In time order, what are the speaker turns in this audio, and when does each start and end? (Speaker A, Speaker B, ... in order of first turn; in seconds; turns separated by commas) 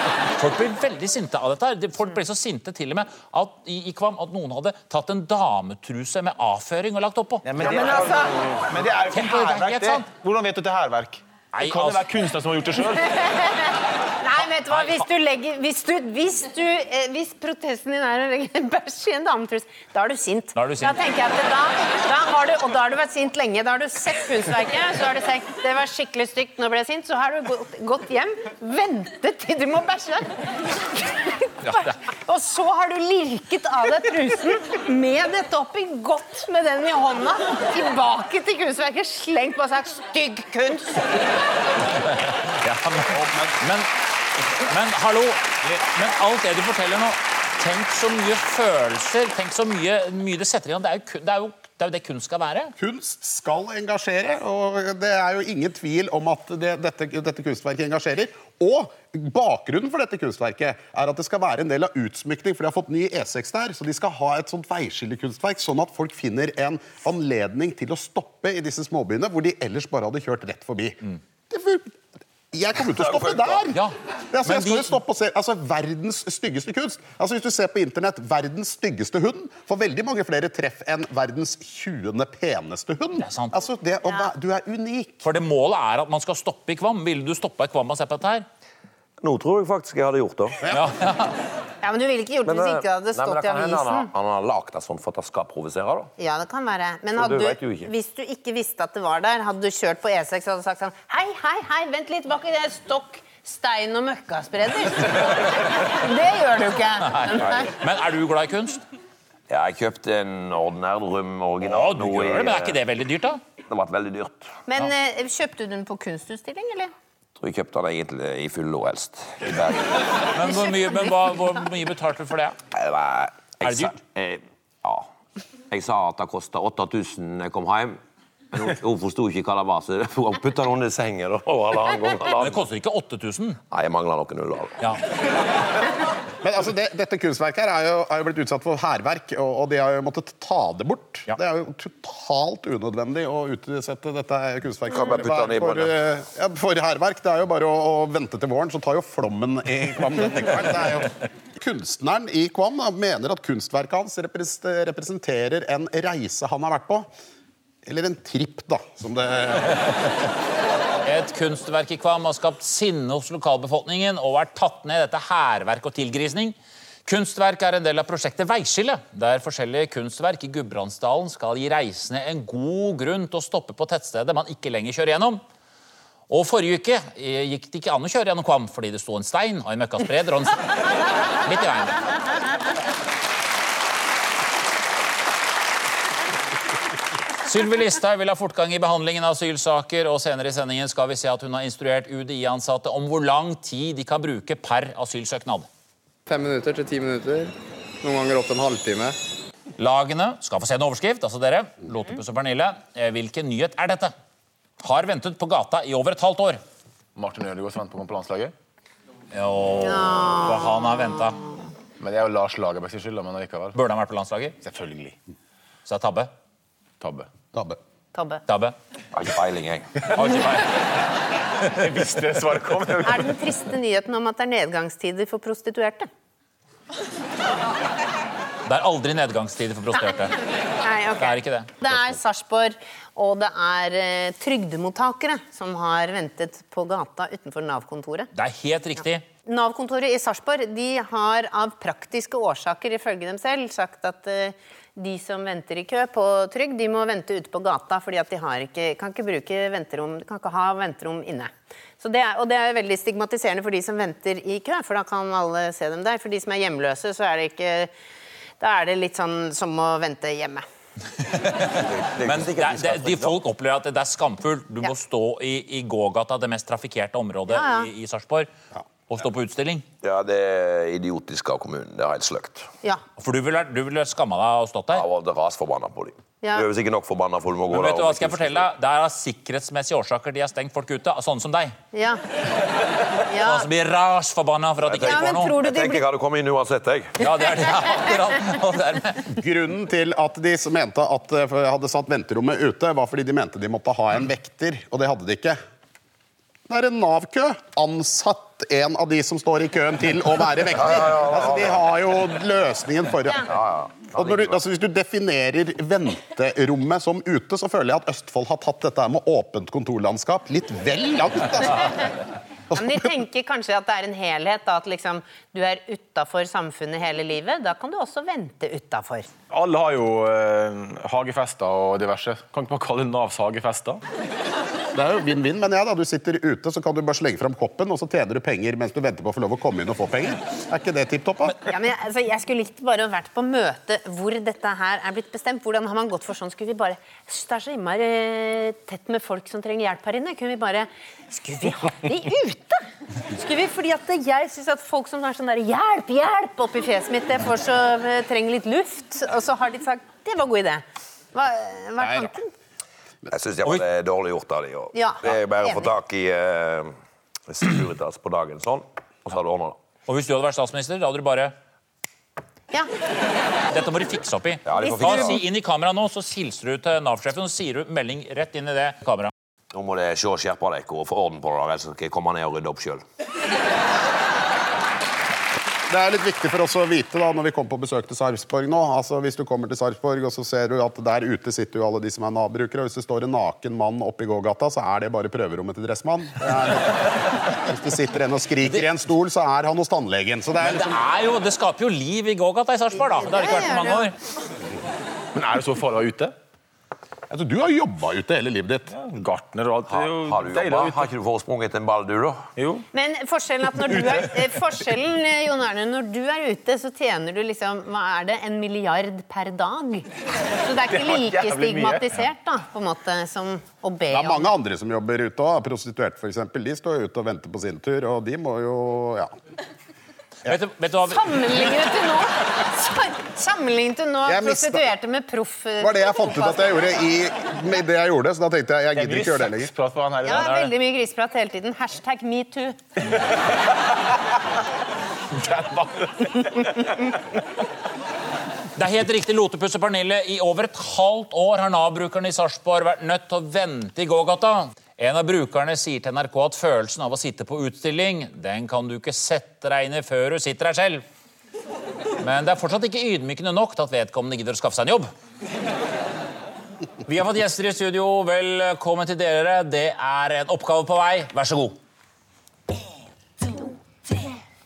Speaker A: 0.4-7.4, Speaker B: 7.4-13.2, Speaker C: 7.6-8.3, Speaker A: 9.1-10.1, Speaker A: 11.5-12.0, Speaker C: 13.3-41.2, Speaker A: 14.7-15.0, Speaker A: 20.5-20.9, Speaker A: 31.6-31.9, Speaker A: 42.1-43.9, Speaker D: 43.1-43.5, Speaker A: 44.6-52.7, Speaker D: 52.8-72.0, Speaker D: 72.5-85.2, Speaker A: 73.7-75.0, Speaker A: 83.2-83.5, Speaker A: 85.2-88.5, Speaker E: 89.2-90.6, Speaker D: 90.6-90.9, Speaker A: 90.7-91.3, Speaker C: 91.8-94.1, Speaker E: 92.4-96.1, Speaker C: 96.2-107.7, Speaker E: 97.2-97.9, Speaker A: 107.0-108.8, Speaker E: 109.5-112.8, Speaker A: 111.6-113.4, Speaker E: 113.7-114.5, Speaker C: 114.7-116.9, Speaker E: 117.4-120.0, Speaker A: 120.3-122.6, Speaker E: 122.7-125.1, Speaker A: 123.6-123.9, Speaker E: 125.7-128.0, Speaker E: 128.5-132.6, Speaker A: 132.4-133.6, Speaker E: 133.7-134.8, Speaker D: 136.4-157.1, Speaker E: 144.9-145.9, Speaker D: 157.8-160.0, Speaker A: 161.0-175.4, Speaker A: 176.3-180.6, Speaker A: 181.4-182.0, Speaker A: 187.4-195.7, Speaker F: 196.2-199.1, Speaker A: 199.8-204.1, Speaker A: 204.8-206.6, Speaker B: 207.1-208.5, Speaker A: 209.3-211.4, Speaker C: 209.8-210.8, Speaker B: 212.0-213.7, Speaker A: 213.7-214.6, Speaker D: 214.7-215.1, Speaker A: 215.9-216.3, Speaker B: 217.0-217.3, Speaker D: 217.5-217.8, Speaker C: 218.1-218.4, Speaker A: 218.5-218.7, Speaker E: 219.1-219.9, Speaker B: 220.1-220.3, Speaker A: 220.1-220.7, Speaker B: 221.7-223.3, Speaker C: 223.0-226.1, Speaker A: 228.7-230.3, Speaker C: 230.8-238.3, Speaker A: 231.2-231.7, Speaker A: 238.3-239.2, Speaker C: 239.4-257.9, Speaker C: 258.6-260.6, Speaker A: 261.2-268.5, Speaker E: 261.7-263.4, Speaker C: 267.5-267.9, Speaker A: 269.1-269.8, Speaker E: 270.0-272.7, Speaker A: 273.2-275.0, Speaker E: 274.9-278.6, Speaker A: 277.7-281.8, Speaker C: 281.9-282.2, Speaker C: 283.3-283.6, Speaker A: 283.4-285.5, Speaker E: 284.9-287.2, Speaker C: 285.0-286.0, Speaker A: 287.2-289.3, Speaker D: 289.4-295.6, Speaker D: 296.7-303.5, Speaker E: 300.8-302.0, Speaker E: 303.5-304.5, Speaker D: 304.1-312.1, Speaker D: 312.7-313.0, Speaker C: 312.7-319.3, Speaker B: 319.5-324.0, Speaker D: 324.9-331.6, Speaker C: 331.6-350.8, Speaker C: 351.3-352.5, Speaker E: 353.3-356.9, Speaker C: 354.9-355.9, Speaker E: 357.5-359.8, Speaker A: 360.1-361.5, Speaker A: 363.7-369.3, Speaker E: 364.6-365.4, Speaker C: 364.8-365.4, Speaker E: 369.7-373.0, Speaker D: 375.9-391.0, Speaker A: 390.6-394.1, Speaker C: 393.1-394.1, Speaker B: 395.3-396.3, Speaker D: 397.3-398.9, Speaker B: 398.9-401.1, Speaker E: 399.9-402.4, Speaker B: 402.6-402.8, Speaker C: 402.9-410.1, Speaker C: 410.6-414.5, Speaker B: 410.9-412.1, Speaker D: 414.1-419.3, Speaker A: 420.4-421.2, Speaker C: 421.1-426.7, Speaker D: 424.2-424.9, Speaker D: 425.8-429.7, Speaker B: 428.9-430.5, Speaker C: 430.2-432.8, Speaker A: 430.3-430.7, Speaker B: 435.3-436.8, Speaker A: 438.8-451.0, Speaker A: 452.2-455.1, Speaker A: 457.1-461.8